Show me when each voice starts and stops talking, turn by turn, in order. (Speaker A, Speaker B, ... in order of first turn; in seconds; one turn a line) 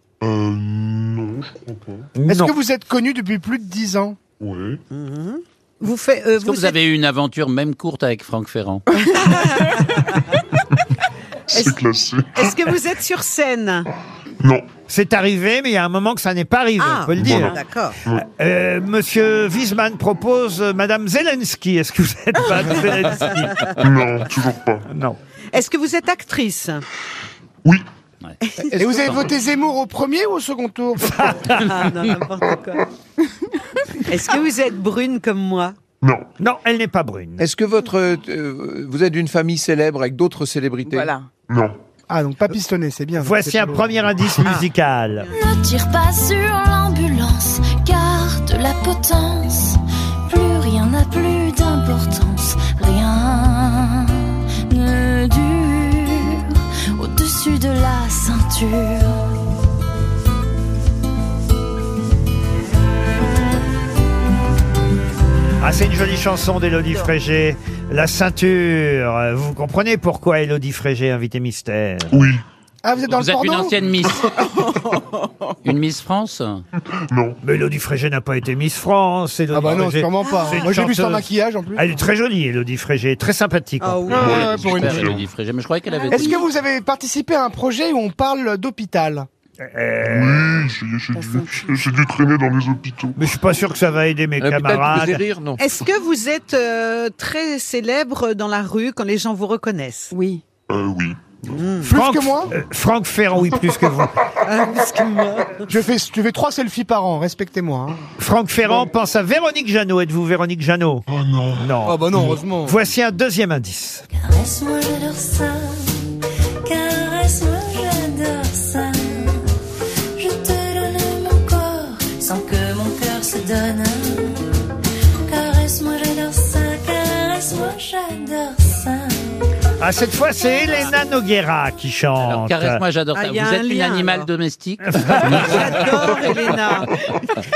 Speaker A: 0.2-2.1
Speaker B: 2.1-2.5
Speaker C: 2.3-4.2
Speaker A: 4.4-4.8
Speaker D: 4.9-6.7
Speaker E: 6.4-8.9
Speaker D: 9.1-10.2
Speaker A: 11.5-12.8
Speaker D: 12.3-13.9
Speaker A: 14.4-14.7
Speaker B: 14.9-17.5
Speaker D: 16.8-17.9
Speaker A: 17.1-17.5
Speaker B: 18.2-23.5
Speaker D: 23.3-23.6
Speaker A: 23.8-24.9
Speaker B: 24.9-25.2
Speaker D: 25.5-26.8
Speaker D: 28.4-29.0
Speaker C: 28.8-31.2
Speaker B: 31.1-31.6
Speaker D: 31.6-32.8
Speaker D: 34.1-35.8
Speaker A: 36.0-36.3
Speaker B: 36.4-37.4
Speaker F: 37.4-41.1
Speaker G: 40.9-41.3
Speaker A: 41.5-41.8
Speaker C: 42.1-44.0
Speaker B: 43.2-45.3
Speaker H: 45.3-59.3
Speaker B: 65.6-72.2
Speaker A: 72.1-72.4
Speaker C: 72.8-73.9
Speaker E: 73.1-74.3
Speaker G: 75.0-75.5
Speaker E: 75.6-76.6
Speaker A: 76.8-77.4
Speaker B: 77.4-84.2
Speaker C: 79.5-82.0
Speaker D: 83.8-84.4
Speaker A: 84.1-85.2
Speaker C: 84.1-85.0
Speaker E: 84.2-86.4
Speaker G: 85.9-86.2
Speaker C: 86.1-89.3
Speaker B: 89.6-90.7
Speaker A: 90.0-93.2
Speaker G: 91.2-91.5
Speaker B: 93.2-95.2
Speaker F: 94.4-95.6
Speaker D: 95.6-100.1
Speaker G: 100.1-100.4
Speaker A: 100.7-101.4
Speaker D: 101.5-101.9
Speaker C: 101.8-102.5
Speaker B: 101.9-104.1
Speaker D: 104.4-105.7
Speaker C: 105.7-108.0
Speaker B: 108.2-111.0
Speaker A: 111.1-112.4
Speaker B: 111.6-114.0
Speaker C: 111.8-112.8
Speaker H: 114.1-116.0
Speaker H: 116.6-119.4
Speaker H: 120.2-124.5
Speaker H: 125.2-129.4
Speaker B: 129.8-132.8
Speaker E: 132.2-136.0
Speaker D: 133.1-134.3
Speaker B: 135.0-135.4
Speaker D: 135.3-136.9